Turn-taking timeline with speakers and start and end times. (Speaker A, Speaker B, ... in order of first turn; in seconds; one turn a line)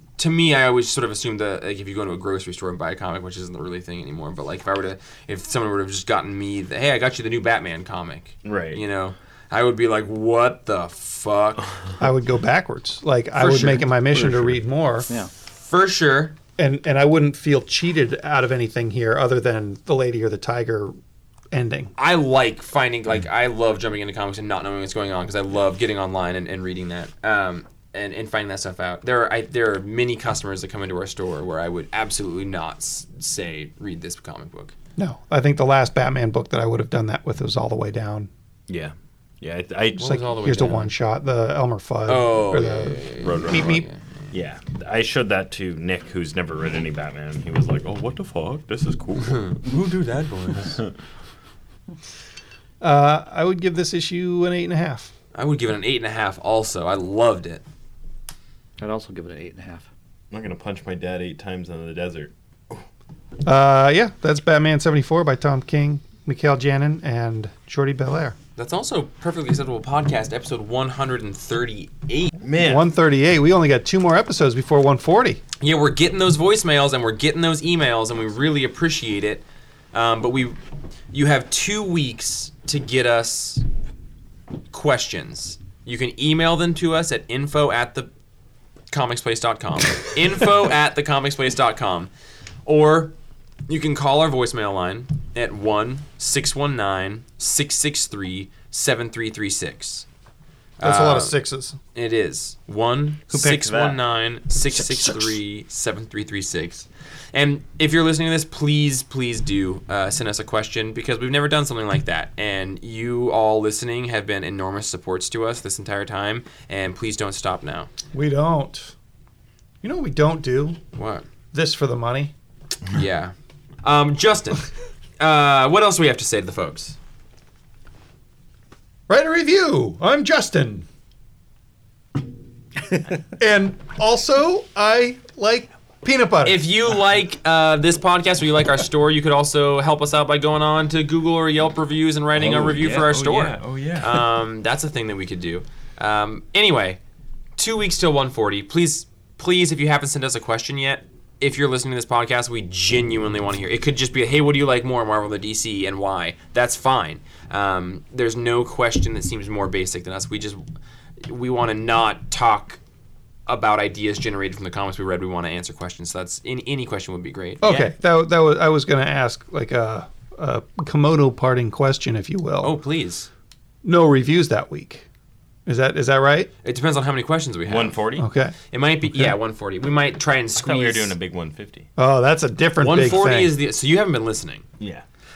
Speaker A: 0.2-11.7
Speaker B: 8.4-8.8
Speaker C: 12.0-15.1
Speaker A: 13.4-13.8
Speaker D: 13.4-14.5
Speaker A: 15.6-16.3
Speaker C: 16.6-20.9
Speaker C: 21.5-21.9
Speaker A: 22.0-34.7
Speaker C: 35.0-38.3
Speaker B: 38.7-40.2
Speaker A: 40.0-40.9
Speaker C: 40.0-43.9
Speaker A: 42.1-44.0
Speaker B: 43.2-49.6
Speaker A: 49.2-50.8
Speaker B: 50.6-50.9
Speaker C: 52.8-55.1
Speaker A: 55.3-57.6
Speaker D: 58.8-59.9
Speaker B: 60.3-62.8
Speaker C: 63.4-68.3
Speaker A: 68.6-72.3
Speaker B: 72.4-72.9
Speaker C: 72.6-75.4
Speaker A: 75.6-80.6
Speaker A: 81.1-83.6
Speaker A: 84.7-88.1
Speaker A: 88.9-92.1
Speaker A: 92.7-93.1
Speaker A: 93.7-100.0
Speaker A: 100.8-101.4
Speaker C: 100.8-101.8
Speaker A: 101.9-117.9
Speaker B: 103.3-104.0
Speaker B: 104.7-105.4
Speaker C: 118.1-118.9
Speaker C: 119.8-120.8
Speaker A: 120.9-121.2
Speaker C: 121.5-122.3
Speaker A: 122.9-127.0
Speaker C: 129.1-130.8
Speaker C: 133.4-136.6
Speaker A: 136.4-147.0
Speaker B: 142.3-144.2
Speaker A: 147.6-160.6
Speaker A: 161.2-162.8
Speaker A: 163.5-167.9
Speaker C: 167.6-172.7
Speaker A: 172.6-173.3
Speaker C: 173.8-175.1
Speaker C: 175.7-176.5
Speaker A: 176.6-178.0
Speaker B: 177.6-178.3
Speaker C: 178.2-178.5
Speaker A: 178.7-181.1
Speaker B: 180.6-181.9
Speaker C: 182.0-183.5
Speaker A: 182.8-184.6
Speaker B: 184.8-185.0